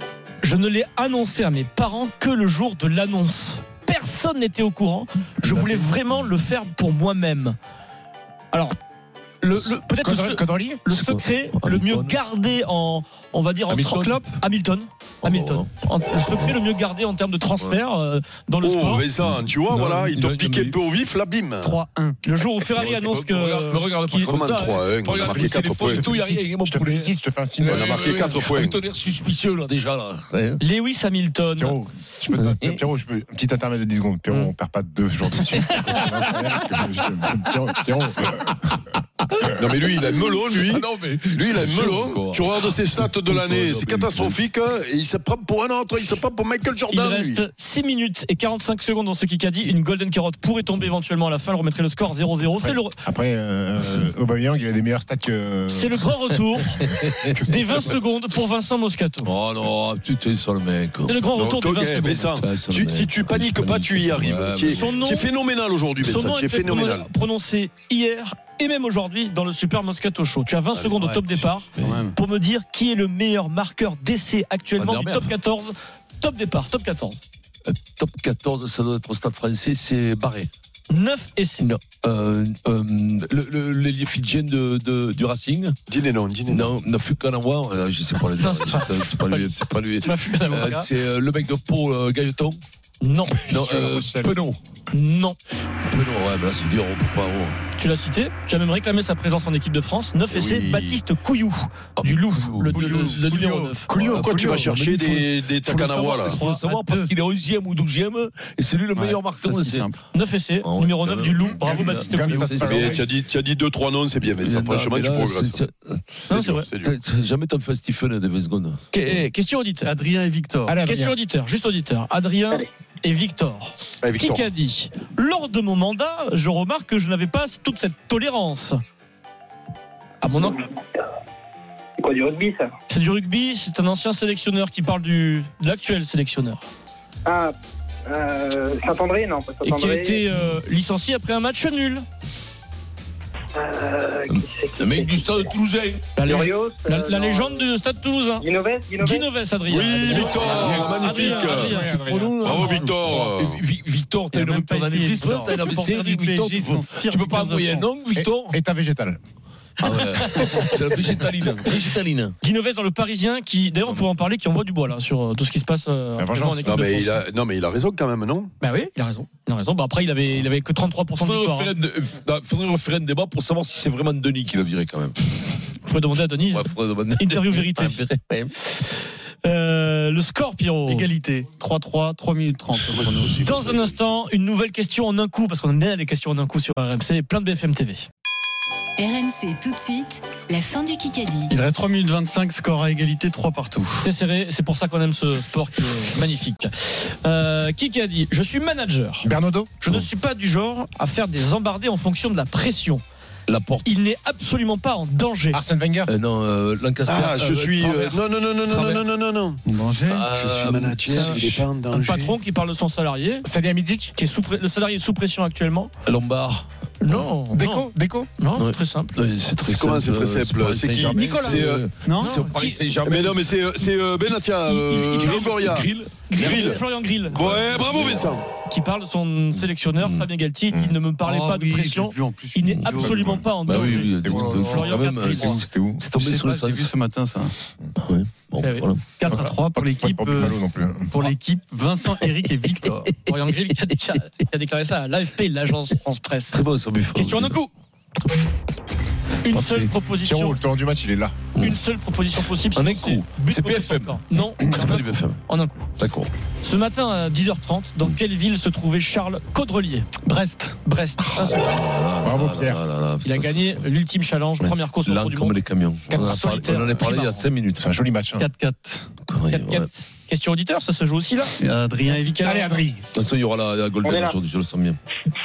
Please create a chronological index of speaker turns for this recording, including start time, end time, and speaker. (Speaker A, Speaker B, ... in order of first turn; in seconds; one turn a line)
Speaker A: 0.4-7.6
Speaker B: 5.4-5.9
Speaker A: 9.4-19.1
Speaker C: 9.6-10.8
Speaker D: 10.9-12.2
Speaker B: 13.7-14.4
Speaker D: 15.2-15.7
Speaker D: 16.2-16.6
Speaker E: 18.6-21.8
Speaker D: 19.2-20.8
Speaker B: 21.6-22.2
Speaker A: 22.2-24.4
Speaker D: 22.6-30.6
Speaker E: 24.3-26.2
Speaker C: 25.2-28.5
Speaker E: 27.6-28.8
Speaker A: 30.6-31.8
Speaker C: 31.6-38.8
Speaker D: 32.4-32.8
Speaker D: 35.7-36.1
Speaker E: 39.5-47.4
Speaker D: 40.3-44.4
Speaker A: 46.9-53.0
Speaker C: 52.6-56.1
Speaker A: 55.7-56.9
Speaker D: 56.8-57.4
Speaker C: 57.3-57.9
Speaker A: 57.4-59.3
Speaker D: 59.2-61.2
Speaker A: 61.1-62.3
Speaker E: 61.3-67.1
Speaker D: 62.4-65.0
Speaker A: 64.7-65.3
Speaker A: 66.0-77.2
Speaker B: 71.0-72.2
Speaker D: 71.8-72.0
Speaker D: 74.8-75.3
Speaker D: 77.7-80.5
Speaker A: 80.9-81.7
Speaker D: 81.6-85.8
Speaker E: 85.9-86.7
Speaker D: 86.5-92.6
Speaker A: 88.4-90.9
Speaker A: 93.0-93.9
Speaker D: 93.4-94.6
Speaker C: 93.5-94.5
Speaker A: 94.9-95.4
Speaker D: 95.8-97.6
Speaker A: 97.8-104.1
Speaker E: 100.3-101.0
Speaker D: 102.0-103.2
Speaker B: 102.7-104.6
Speaker E: 103.9-106.4
Speaker D: 104.1-110.0
Speaker A: 106.2-106.6
Speaker B: 106.3-107.1
Speaker B: 109.0-110.0
Speaker A: 110.1-112.9
Speaker D: 110.6-113.0
Speaker C: 111.5-113.1
Speaker E: 112.6-115.6
Speaker D: 114.2-116.2
Speaker A: 116.3-116.7
Speaker E: 116.3-117.0
Speaker D: 116.8-119.2
Speaker A: 118.9-119.9
Speaker B: 119.8-120.8
Speaker C: 120.7-121.2
Speaker A: 120.8-128.8
Speaker E: 124.0-124.5
Speaker A: 130.2-130.6
Speaker F: 130.3-130.8
Speaker F: 132.0-132.7
Speaker A: 132.9-136.7
Speaker F: 137.3-137.6
Speaker F: 138.1-140.2
Speaker A: 139.6-142.0
Speaker F: 143.6-145.3
Speaker D: 144.3-146.2
Speaker A: 146.2-148.5
Speaker F: 146.2-147.7
Speaker F: 148.4-149.3
Speaker A: 149.0-152.7
Speaker E: 149.7-151.9
Speaker C: 150.1-152.9
Speaker D: 151.3-158.6
Speaker E: 152.4-153.6
Speaker B: 154.3-157.9
Speaker C: 158.2-159.2
Speaker D: 159.8-162.4
Speaker A: 160.2-160.7
Speaker A: 162.4-167.2
Speaker C: 166.2-167.0
Speaker E: 166.6-168.5
Speaker A: 168.6-171.7
Speaker D: 171.2-175.6
Speaker A: 175.9-178.1
Speaker D: 176.5-178.6
Speaker A: 179.4-181.1
Speaker B: 180.9-183.4
Speaker E: 182.9-184.0
Speaker A: 183.4-188.1
Speaker G: 189.0-191.6
Speaker B: 191.5-194.1
Speaker A: 194.0-199.3
Speaker C: 199.2-199.7
Speaker A: 199.8-203.0
Speaker D: 203.5-203.9
Speaker A: 203.8-205.6
Speaker C: 205.5-206.1
Speaker D: 206.1-209.0
Speaker E: 207.1-209.6
Speaker B: 209.7-210.3
Speaker D: 210.1-211.7
Speaker E: 210.3-212.4
Speaker A: 211.9-213.5
Speaker C: 213.4-214.2
Speaker A: 214.2-215.9
Speaker D: 216.1-217.2
Speaker A: 217.0-219.2
Speaker C: 217.5-218.3
Speaker D: 218.6-223.6
Speaker E: 219.6-221.8
Speaker C: 221.0-221.5
Speaker B: 222.0-222.4
Speaker A: 222.2-222.8
Speaker E: 223.0-228.5
Speaker A: 224.7-225.7
Speaker D: 224.9-228.4
Speaker A: 226.3-227.4
Speaker A: 228.6-235.5
Speaker D: 229.5-230.3
Speaker C: 230.7-231.0
Speaker B: 231.2-237.6
Speaker D: 232.8-233.1
Speaker C: 233.0-236.0
Speaker D: 233.7-236.9
Speaker D: 238.0-239.0
Speaker A: 238.6-239.5
Speaker B: 239.2-243.2
Speaker C: 239.7-241.2
Speaker A: 243.2-246.6
Speaker D: 246.5-247.6
Speaker A: 247.1-247.7
Speaker A: 249.4-250.6
Speaker D: 249.5-249.9
Speaker C: 250.2-251.4
Speaker A: 251.6-255.9
Speaker D: 252.7-255.4
Speaker D: 256.0-256.3
Speaker A: 256.6-260.1
Speaker B: 260.3-260.8
Speaker A: 260.9-261.8
Speaker D: 261.4-263.9
Speaker C: 262.2-262.8
Speaker A: 263.2-265.6
Speaker D: 264.6-267.9
Speaker C: 266.1-266.8
Speaker A: 266.1-267.5
Speaker C: 267.8-268.4
Speaker B: 268.4-269.1
Speaker D: 269.3-269.9
Speaker A: 269.5-271.6
Speaker B: 271.6-272.8
Speaker A: 272.2-272.7
Speaker C: 272.4-273.0
Speaker D: 273.1-275.0
Speaker F: 274.0-274.4